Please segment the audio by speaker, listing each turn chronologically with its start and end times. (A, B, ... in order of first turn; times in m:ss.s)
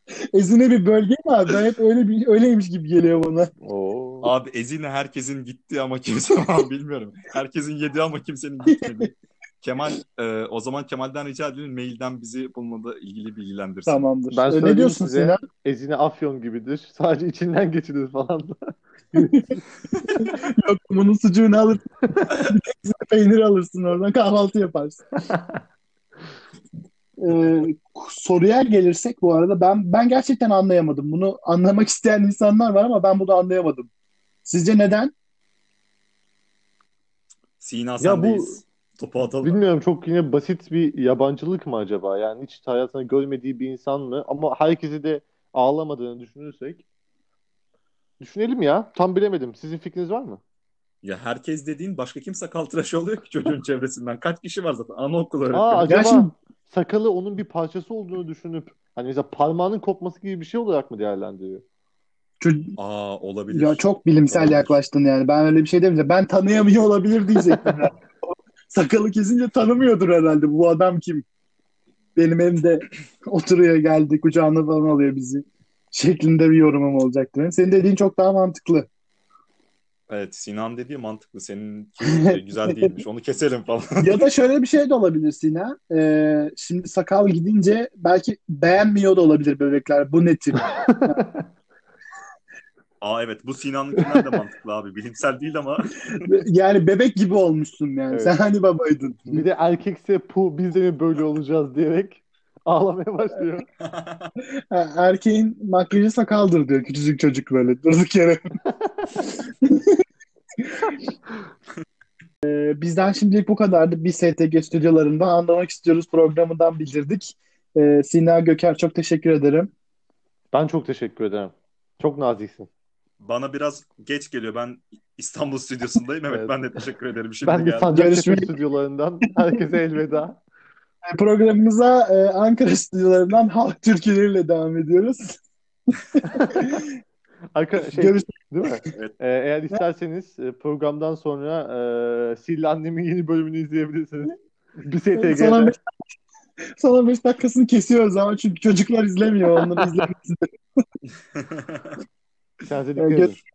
0:00.3-0:03.5 A
0:03.6-0:04.3 B
0:04.2-0:14.1 C
0:13.9-0:15.4 A
0:14.3-0:19.6 B
0:19.2-0:19.5 A
0:20.0-0:20.3 C
0:20.2-0:25.0 A
0:25.3-0:25.6 B
0:27.2-0:33.9 A
0:34.4-0:35.1 A
0:37.6-0:39.6 C
0:38.0-0:38.6 B
0:39.4-0:46.8 B
0:48.2-0:50.4 B
0:51.0-0:56.0 C
0:55.5-1:01.6 B
0:55.9-0:56.4 A
1:02.4-1:02.8 A
1:02.8-1:04.8 C
1:03.5-1:11.3 A
1:12.2-1:18.9 A
1:20.1-1:24.2 C
1:22.0-1:22.9 A
1:24.0-1:31.2 A
1:30.9-1:31.4 B
1:33.0-1:36.3 C
1:36.2-1:39.4 A
1:38.1-1:38.4 B
1:39.3-1:43.7 B
1:43.8-1:44.3 C
1:44.7-1:48.4 A
1:49.6-1:50.0 A
1:52.4-1:59.7 A
2:00.5-2:02.7 B
2:03.2-2:08.0 C
2:06.3-2:06.8 B
2:07.4-2:10.4 B
2:07.9-2:08.5 A
2:11.1-2:15.4 A
2:16.2-2:16.9 A
2:16.2-2:16.6 B
2:17.6-2:25.8 B
2:17.9-2:18.3 A
2:25.1-2:25.8 A
2:26.8-2:30.8 A
2:31.3-2:32.0 C
2:32.6-2:33.4 B
2:33.0-2:33.4 A